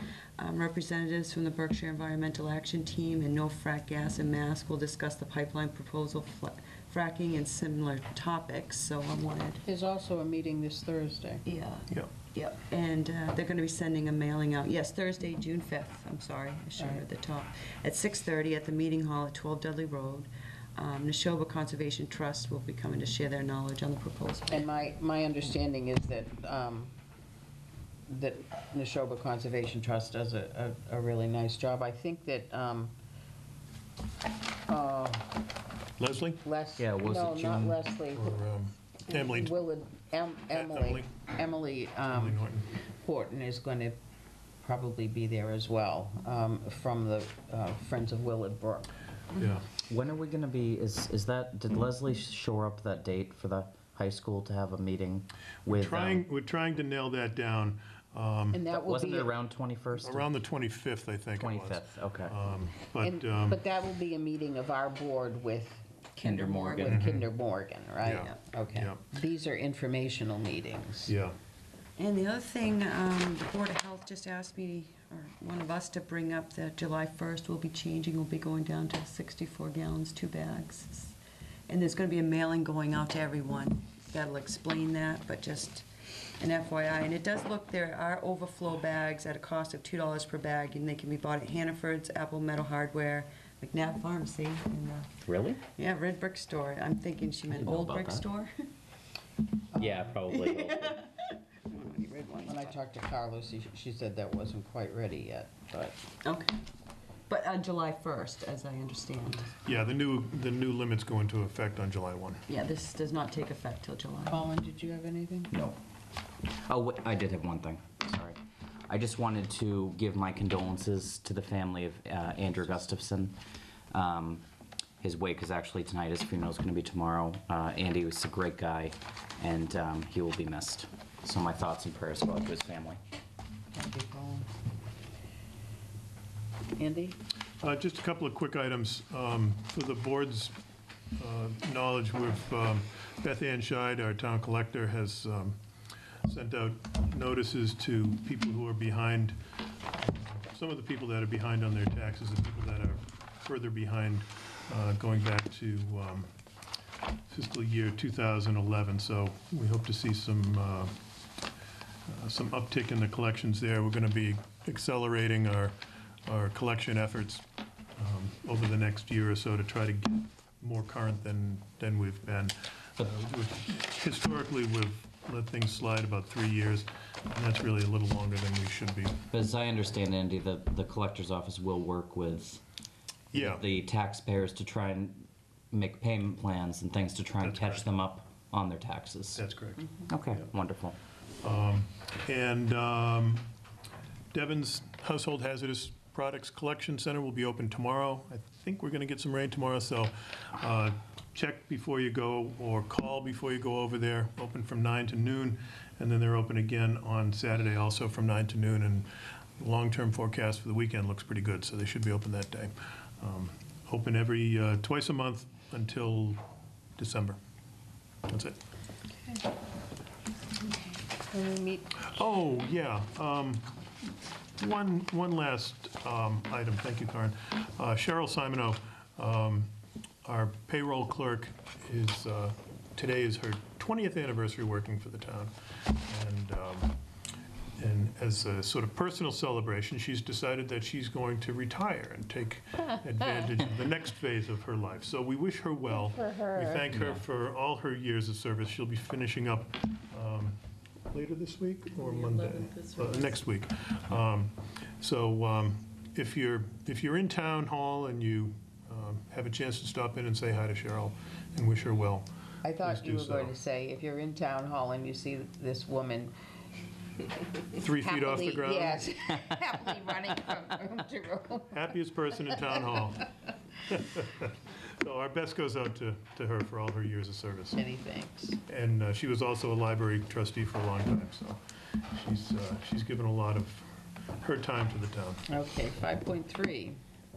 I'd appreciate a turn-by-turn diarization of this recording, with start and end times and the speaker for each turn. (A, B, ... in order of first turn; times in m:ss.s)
0:00.4-0:09.6 A
0:09.6-0:11.4 B
0:11.4-0:24.7 A
0:16.8-0:17.0 B
0:24.5-0:26.9 B
0:28.1-0:32.9 B
0:34.7-0:35.3 B
0:36.0-0:36.4 C
0:36.4-0:38.4 B
0:36.8-0:37.8 D
0:38.1-0:39.5 C
0:39.1-0:44.0 B
0:40.5-0:41.1 C
0:42.1-0:42.6 C
0:44.6-0:48.9 B
0:49.4-0:49.7 C
0:49.8-0:56.2 D
0:55.7-0:58.7 C
0:58.5-0:59.3 B
0:58.7-1:00.3 D
1:00.0-1:03.6 C
1:01.4-1:02.3 D
1:03.0-1:11.1 B
1:06.2-1:07.0 D
1:06.9-1:07.3 C
1:08.0-1:09.0 C
1:11.0-1:11.4 C
1:12.0-1:21.2 A
1:21.7-1:25.8 A
1:26.4-1:38.7 A
1:35.2-1:35.6 D
1:37.5-1:38.2 D
1:39.7-1:40.1 B
1:39.8-1:41.0 D
1:40.3-1:42.8 A
1:42.4-1:46.0 B
1:46.2-1:46.6 A
1:47.3-1:49.6 A
1:49.6-1:52.4 C
1:52.5-1:54.5 A
1:54.3-1:55.5 B
1:55.5-1:55.8 D
1:56.4-2:03.4 D
2:03.9-2:04.4 D
2:05.0-2:13.0 D
2:13.7-2:14.5 B
2:16.8-2:17.2 B
2:17.6-2:20.5 C
2:21.2-2:25.6 C
2:26.2-2:29.4 C
2:30.0-2:36.3 C
2:37.3-2:40.9 C
2:42.1-2:47.4 C
2:48.0-2:59.2 C
2:59.3-3:02.6 D
3:03.3-3:03.6 C
3:03.3-3:09.4 D
3:07.4-3:07.9 C
3:09.3-3:10.4 C
3:10.1-3:11.0 D
3:11.4-3:13.4 C
3:14.3-3:29.1 C
3:29.6-3:36.4 C
3:37.0-3:37.4 C
3:38.3-3:38.6 C
3:39.1-3:39.4 B
3:40.6-3:42.1 B
3:42.0-3:43.7 C
3:44.6-3:49.7 C
3:50.2-3:57.0 C
3:57.8-4:10.6 C
4:06.0-4:06.8 B
4:06.9-4:07.2 D
4:11.1-4:22.3 C
4:12.0-4:13.4 A
4:22.6-4:26.3 B
4:22.8-4:23.6 C
4:27.7-4:29.1 C
4:27.9-4:31.8 B
4:31.7-4:37.8 C
4:37.8-4:38.6 B
4:38.7-4:43.9 C
4:44.4-4:45.5 C
4:45.5-4:47.0 B